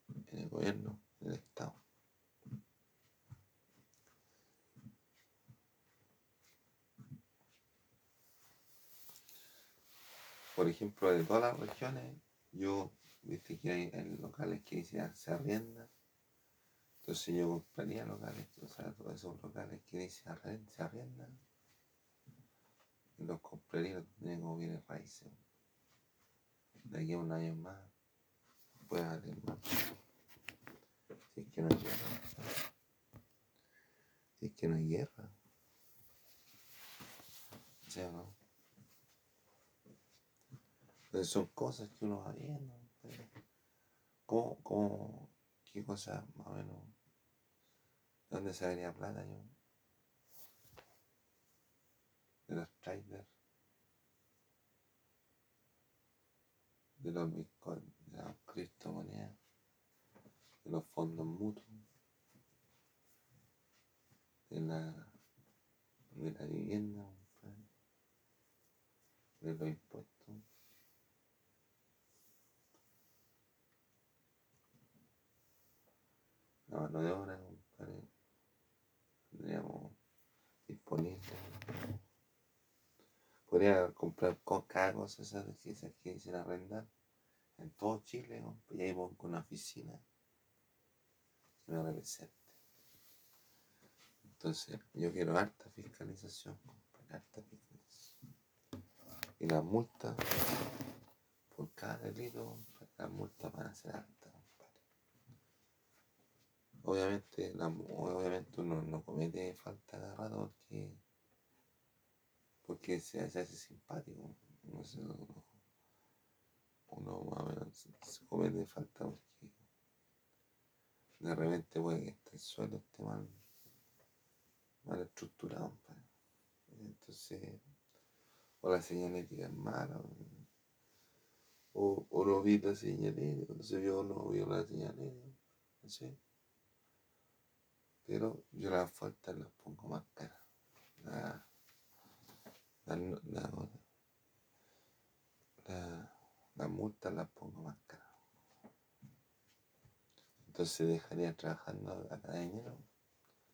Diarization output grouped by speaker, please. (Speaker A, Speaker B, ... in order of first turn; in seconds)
Speaker A: 0.2-1.8, 10.5-15.9, 17.0-21.4, 23.2-25.4, 26.9-27.9, 28.8-29.8, 31.3-32.5, 34.4-35.3, 37.8-38.4, 41.1-43.3, 44.3-46.9, 48.3-49.5, 52.5-53.3, 57.0-59.4, 60.6-61.8, 64.5-65.1, 66.1-67.6, 69.4-70.4, 76.7-78.1, 79.3-80.0, 80.7-81.8, 83.5-86.9, 87.6-90.0, 91.6-92.6, 94.2-98.1, 99.4-100.4, 101.5-104.8, 106.8-111.0, 112.6-115.5, 116.9-119.6, 121.2-123.4, 124.8-126.1, 126.7-127.6, 128.6-130.5, 131.7-136.2, 138.0-140.4, 141.0-141.5, 142.8-143.8, 145.6-148.1, 150.4-152.8